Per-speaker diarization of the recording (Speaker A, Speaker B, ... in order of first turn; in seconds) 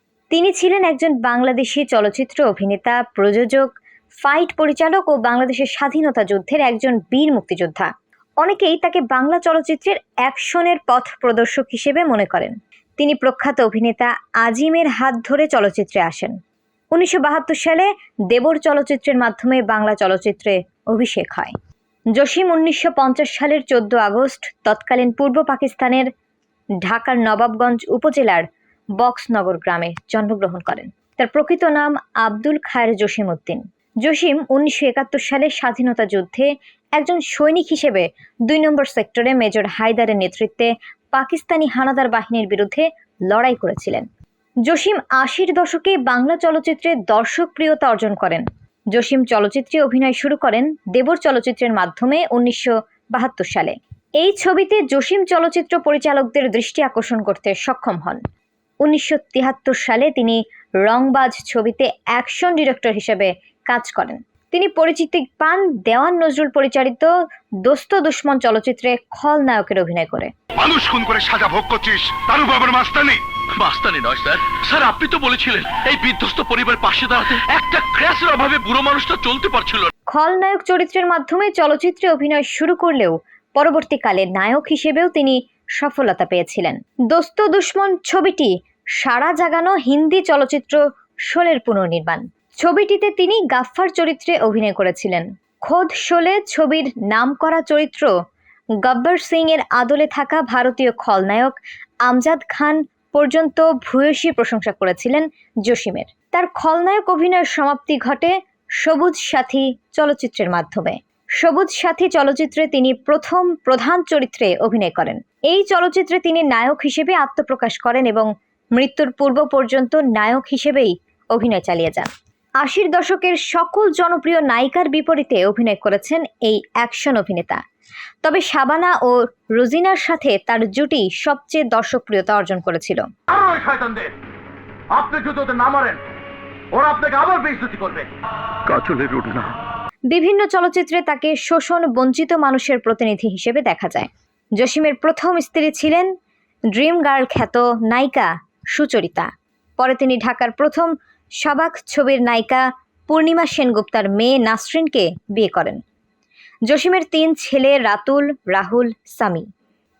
Speaker A: 0.3-16.4, 16.9-21.5, 22.1-26.1, 26.8-28.4, 29.0-44.0, 44.7-58.2, 58.8-67.1, 67.6-70.3, 80.1-98.1, 98.8-122.1, 122.6-127.6, 128.2-133.0, 140.1-146.1, 146.7-155.8, 156.7-159.5
Speaker B: 70.6-73.2, 133.3-134.1, 134.9-136.0, 136.7-138.1
Speaker C: 73.5-79.9, 138.7-139.6